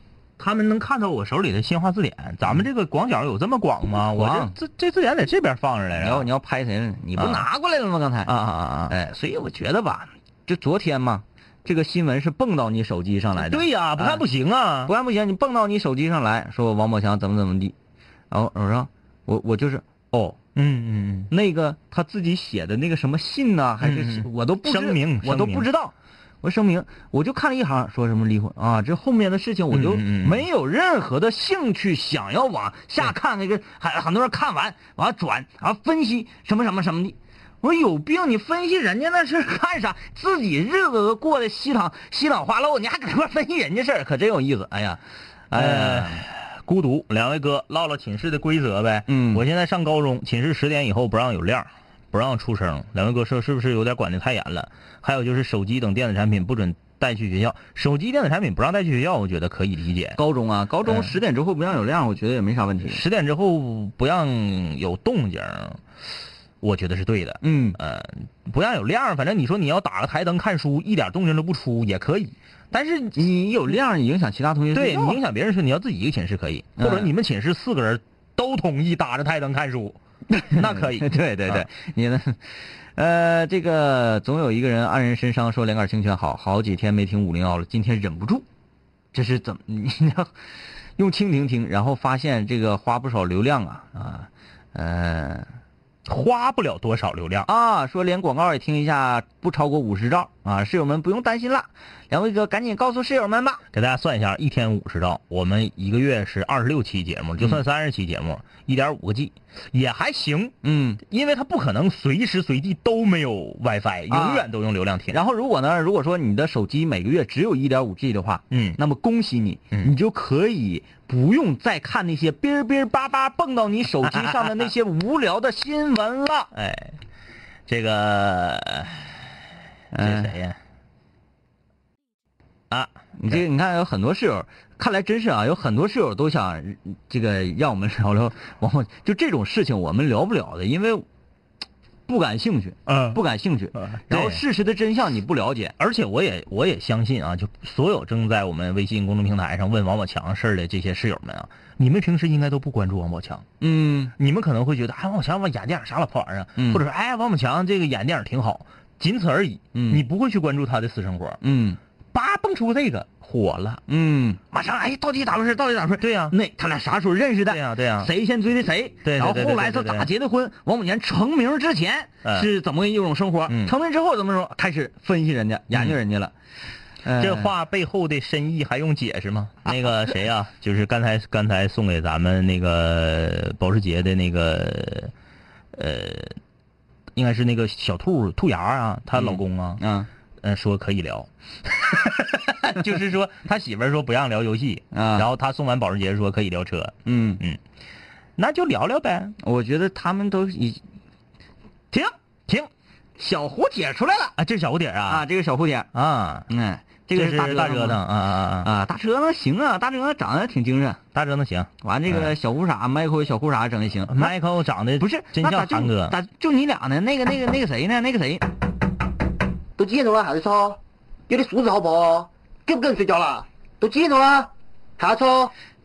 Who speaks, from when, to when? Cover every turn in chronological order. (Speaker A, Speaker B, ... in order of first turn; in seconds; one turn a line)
Speaker A: 0.4-6.3
Speaker B: 4.0-4.5
Speaker B: 6.0-8.3
Speaker A: 7.2-7.5
Speaker A: 8.2-8.9
Speaker B: 8.9-14.2
Speaker A: 13.4-14.9
Speaker B: 14.8-17.7
Speaker B: 18.3-20.4
Speaker A: 20.5-21.3
Speaker B: 21.3-46.2
Speaker A: 23.8-25.7
Speaker A: 29.7-30.5
Speaker A: 45.5-60.2
Speaker B: 49.1-49.4
Speaker B: 60.1-63.0
Speaker A: 60.9-61.1
Speaker A: 62.8-65.8
Speaker A: 66.6-73.2
Speaker B: 67.4-67.8
Speaker B: 73.1-75.2
Speaker A: 74.7-80.0
Speaker B: 76.8-77.1
Speaker B: 80.3-88.4
Speaker A: 80.5-81.7
Speaker B: 89.1-90.3
Speaker B: 91.0-95.5
Speaker A: 96.0-97.5
Speaker B: 97.4-103.6
Speaker A: 103.7-115.2
Speaker B: 110.6-111.0
Speaker B: 114.1-114.5
Speaker B: 115.1-126.5
Speaker A: 118.5-118.8
Speaker A: 124.1-124.5
Speaker A: 126.5-127.0
Speaker A: 127.7-129.2
Speaker B: 129.9-130.3
Speaker A: 129.9-130.6
Speaker A: 132.7-133.4
Speaker B: 133.2-141.0
Speaker B: 142.1-145.7
Speaker A: 142.8-143.2
Speaker A: 143.7-144.4
Speaker A: 145.8-153.4
Speaker B: 153.6-154.1
Speaker A: 154.2-161.4
Speaker B: 156.6-156.8
Speaker B: 159.7-160.0
Speaker B: 161.4-161.8
Speaker A: 162.1-163.8
Speaker B: 163.9-176.3
Speaker A: 166.0-166.3
Speaker A: 167.5-168.1
Speaker A: 169.0-170.1
Speaker A: 173.5-173.7
Speaker B: 177.0-177.5
Speaker A: 177.1-185.1
Speaker A: 185.7-186.4
Speaker A: 187.1-189.8
Speaker B: 189.1-190.1
Speaker A: 190.4-197.6
Speaker B: 194.9-195.3
Speaker B: 197.0-197.4
Speaker A: 198.4-199.3
Speaker B: 199.4-200.8
Speaker B: 203.2-204.3
Speaker A: 204.3-205.2
Speaker B: 205.1-205.9
Speaker A: 205.9-206.5
Speaker B: 206.5-208.1
Speaker A: 207.1-208.7
Speaker B: 208.6-211.0
Speaker A: 211.1-212.3
Speaker B: 211.8-214.3
Speaker A: 214.1-216.2
Speaker B: 215.0-218.4
Speaker C: 219.8-225.5